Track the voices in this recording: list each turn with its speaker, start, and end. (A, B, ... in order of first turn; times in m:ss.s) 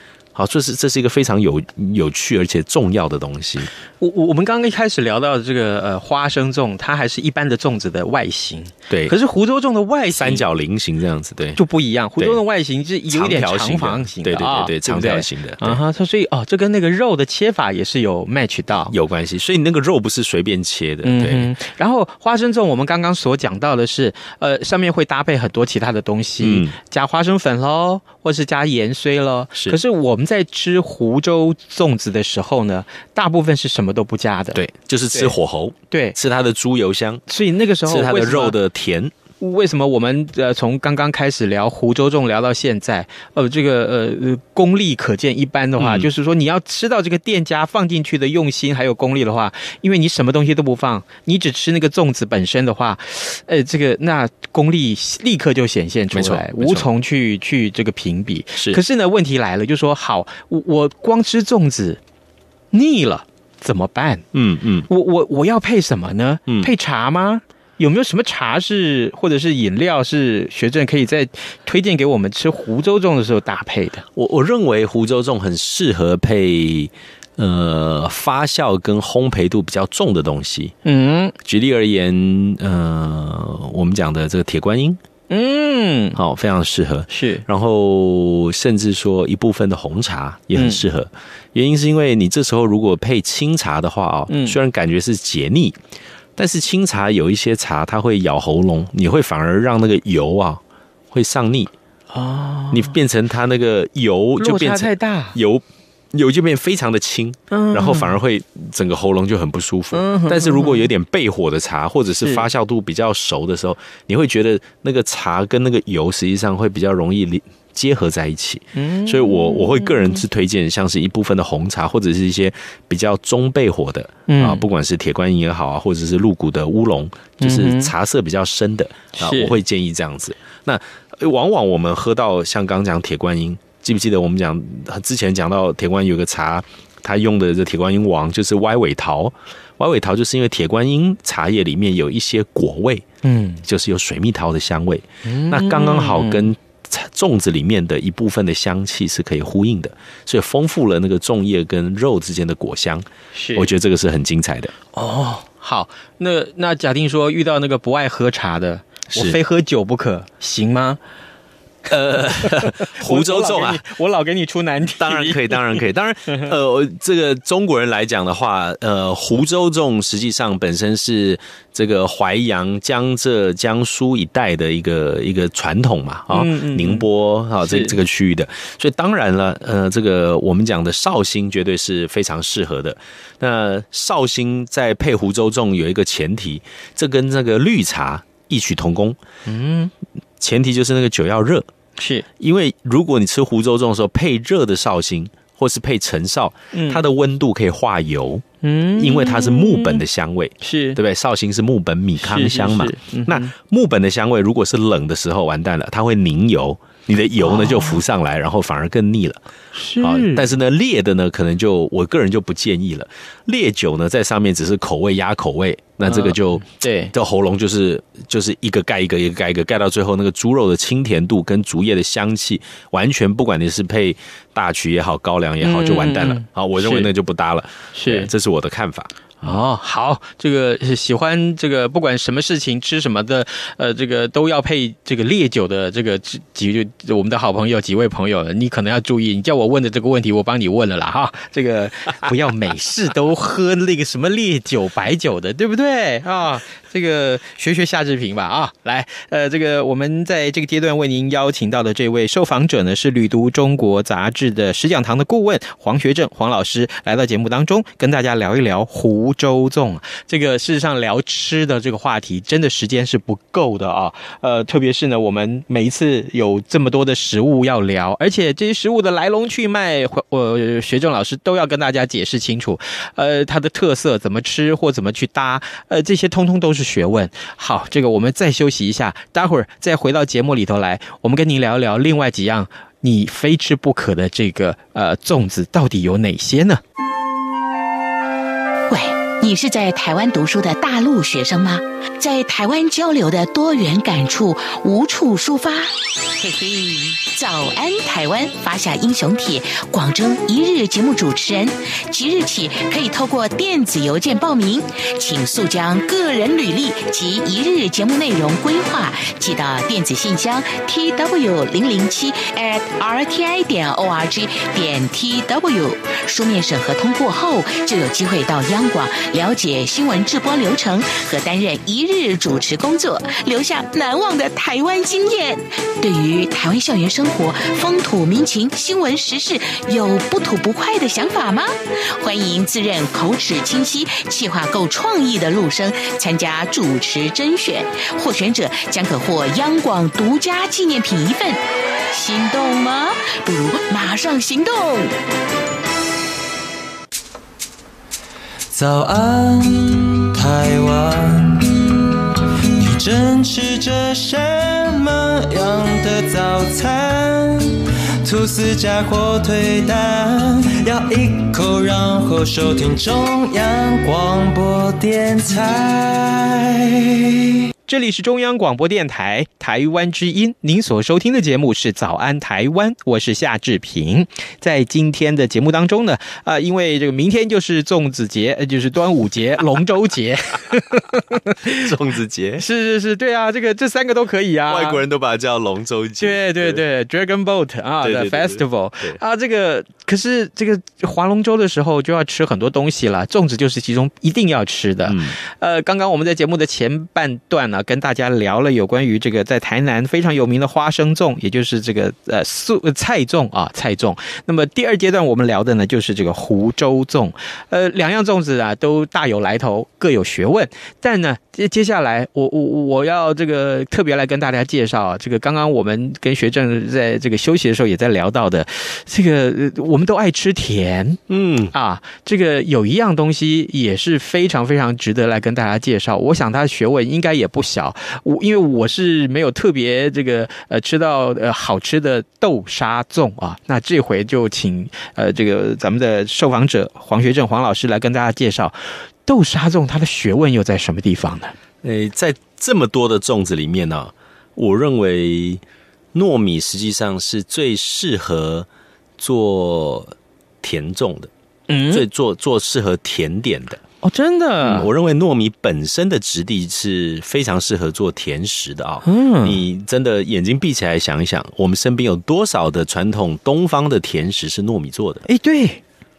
0:00.3-0:03.7 A
0:04.0-0:10.4 B
0:08.9-0:09.1 A
0:10.2-0:11.6 A
0:11.6-0:18.9 B
0:13.1-0:15.8 A
0:18.9-0:21.5 A
0:21.0-0:34.6 B
0:26.4-0:26.7 A
0:34.5-0:37.2 A
0:35.9-0:36.2 B
0:37.3-0:38.5 B
0:37.8-0:39.1 A
0:39.4-1:02.0 B
0:45.8-0:46.1 A
0:56.1-0:56.9 A
1:02.7-1:04.2 B
1:04.3-1:04.9 A
1:04.9-1:14.0 B
1:14.1-1:20.7 A
1:20.8-1:21.3 B
1:21.4-1:25.0 A
1:25.3-1:26.2 B
1:26.1-1:35.8 A
1:27.1-1:27.4 B
1:30.6-1:30.8 B
1:34.3-1:34.6 B
1:36.4-1:40.6 A
1:41.1-1:41.7 A
1:42.1-1:42.9 B
1:42.7-2:23.0 A
1:44.4-1:45.4 B
1:47.5-1:48.1 B
1:49.9-1:50.8 B
1:58.8-2:00.2 B
2:04.3-2:04.6 B
2:07.4-2:07.9 B
2:09.1-2:09.6 B
2:23.2-2:23.6 B
2:23.6-2:34.7 A
2:25.2-2:26.5 B
2:33.3-2:33.7 B
2:34.9-2:41.0 B
2:41.9-2:46.5 B
2:42.1-2:43.8 A
2:45.0-3:09.2 A
2:56.3-2:57.1 B
2:57.6-2:58.0 B
3:09.4-3:09.9 B
3:10.4-3:11.7 A
3:12.0-3:12.2 B
3:12.4-3:18.4 A
3:16.7-3:17.0 B
3:18.6-3:20.0 B
3:19.0-3:29.4 A
3:20.6-3:21.0 B
3:22.2-3:23.5 B
3:27.4-3:28.0 B
3:29.7-3:30.5 B
3:30.0-3:49.1 A
3:36.0-3:37.1 B
3:45.6-3:47.1 B
3:47.9-3:48.3 B
3:49.4-4:46.8 B
4:48.9-5:41.6 C
5:42.1-5:45.1 C
5:48.7-5:52.0 D
5:52.8-6:07.2 D
6:07.9-6:21.9 B
6:21.7-6:22.6 A
6:22.6-6:25.0 B
6:24.7-6:26.8 A
6:26.2-7:01.2 B
6:28.0-6:29.2 A
6:35.0-6:35.4 A
7:01.3-7:01.7 A
7:01.7-7:21.5 B
7:21.8-7:25.6 A
7:26.1-7:31.3 A
7:31.7-7:32.0 B
7:31.9-7:33.8 A
7:34.0-7:34.9 B
7:34.6-7:45.2 A
7:39.0-7:39.6 B
7:45.3-7:45.8 B